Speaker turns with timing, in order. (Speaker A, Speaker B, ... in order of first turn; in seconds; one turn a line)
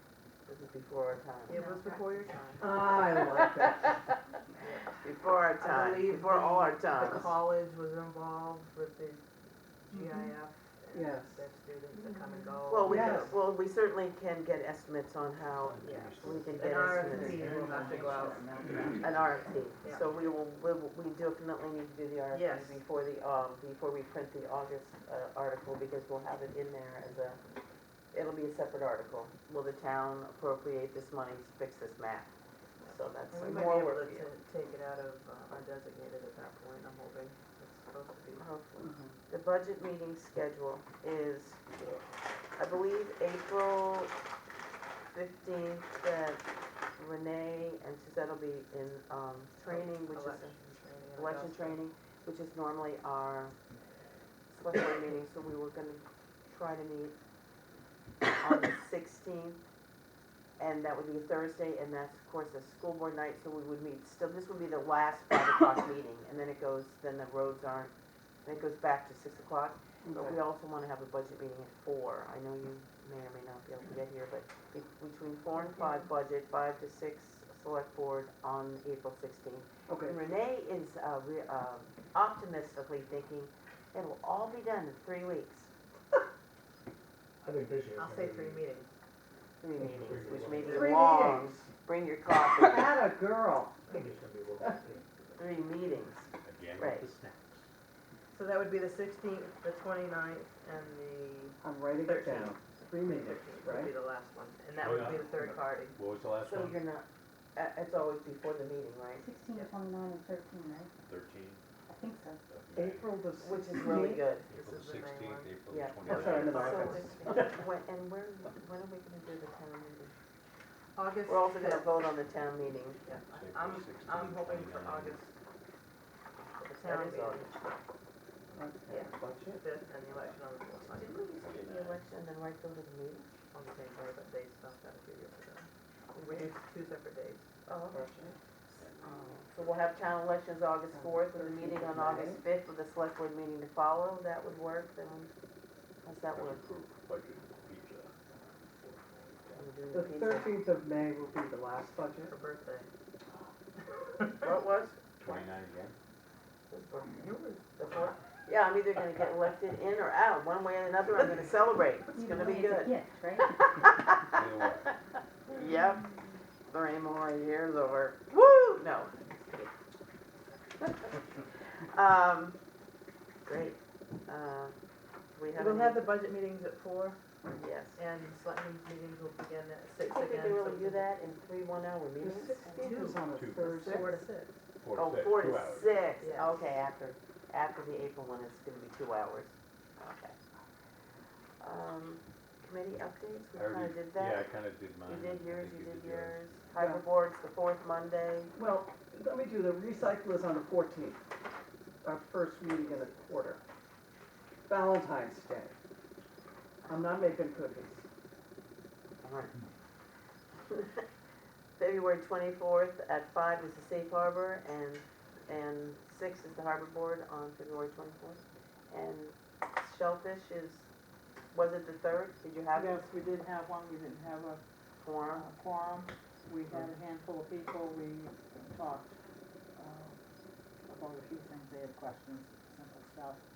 Speaker A: 0.5-1.6
Speaker B: 1.5-3.2
Speaker C: 1.5-2.3
Speaker D: 2.6-3.9
Speaker B: 4.6-5.0
Speaker A: 5.0-7.3
Speaker B: 5.6-9.2
Speaker B: 9.9-13.4
Speaker C: 9.9-10.2
Speaker D: 10.9-11.4
Speaker C: 11.9-12.6
Speaker A: 12.7-17.5
Speaker D: 12.8-13.3
Speaker E: 15.5-19.4
Speaker B: 15.8-18.8
Speaker F: 16.8-19.1
Speaker A: 19.0-27.4
Speaker B: 19.8-20.1
Speaker B: 22.3-22.8
Speaker A: 28.1-32.3
Speaker B: 32.8-38.5
Speaker A: 32.8-34.3
Speaker A: 38.4-41.6
Speaker D: 38.8-39.1
Speaker E: 41.7-42.0
Speaker A: 42.6-44.1
Speaker A: 45.1-46.5
Speaker A: 47.0-50.5
Speaker B: 49.7-51.8
Speaker A: 51.2-53.5
Speaker A: 54.5-57.1
Speaker A: 58.2-59.6
Speaker A: 60.6-67.9
Speaker A: 68.5-85.7
Speaker D: 70.0-70.4
Speaker D: 79.9-80.2
Speaker G: 87.4-88.6
Speaker B: 87.9-88.9
Speaker A: 89.6-92.9
Speaker G: 89.8-90.9
Speaker D: 90.6-91.7
Speaker D: 92.5-94.0
Speaker G: 93.9-95.1
Speaker A: 95.4-97.1
Speaker E: 96.4-97.7
Speaker B: 98.3-106.0
Speaker D: 101.6-104.0
Speaker E: 104.8-106.8
Speaker A: 106.4-109.2
Speaker C: 109.2-110.9
Speaker E: 111.1-111.6
Speaker C: 111.9-112.4
Speaker E: 112.5-113.2
Speaker D: 112.7-114.2
Speaker A: 113.4-114.5
Speaker C: 113.8-114.2
Speaker E: 114.3-117.0
Speaker B: 114.5-117.5
Speaker A: 115.7-120.1
Speaker D: 116.0-117.2
Speaker B: 121.0-121.9
Speaker A: 121.3-123.0
Speaker B: 123.0-125.3
Speaker E: 123.3-125.2
Speaker B: 126.6-127.8
Speaker A: 126.8-127.5
Speaker D: 128.6-129.6
Speaker B: 128.9-131.4
Speaker A: 130.9-133.3
Speaker E: 131.4-132.0
Speaker B: 133.5-137.5
Speaker A: 137.7-138.0
Speaker D: 137.9-138.4
Speaker E: 138.8-139.4
Speaker A: 139.0-145.3
Speaker D: 140.9-142.4
Speaker A: 146.0-146.6
Speaker E: 146.3-149.6
Speaker A: 149.6-150.5
Speaker D: 149.9-152.3
Speaker B: 152.2-152.9
Speaker A: 154.3-155.4
Speaker E: 155.2-155.9
Speaker B: 156.7-157.8
Speaker A: 157.8-164.7
Speaker C: 162.1-163.7
Speaker E: 164.3-165.0
Speaker A: 165.5-169.7
Speaker A: 170.8-171.2
Speaker A: 171.9-172.6
Speaker A: 173.4-174.7
Speaker A: 175.3-176.0
Speaker B: 175.6-177.2
Speaker A: 177.5-178.0
Speaker B: 178.0-181.1
Speaker A: 180.1-182.8
Speaker D: 182.2-184.2
Speaker B: 182.8-184.6
Speaker E: 183.3-184.1
Speaker E: 184.8-186.0
Speaker A: 184.9-190.4
Speaker B: 186.2-186.6
Speaker A: 191.6-194.5
Speaker E: 193.6-196.6
Speaker A: 195.1-198.5
Speaker D: 196.8-197.0
Speaker D: 198.5-201.2
Speaker D: 202.0-203.6
Speaker D: 204.7-205.8
Speaker D: 206.8-208.1
Speaker A: 209.2-209.6
Speaker A: 210.7-211.0
Speaker A: 211.8-220.9
Speaker A: 221.5-223.0
Speaker F: 222.7-229.1
Speaker A: 225.0-225.5
Speaker F: 229.8-230.2
Speaker F: 230.9-233.4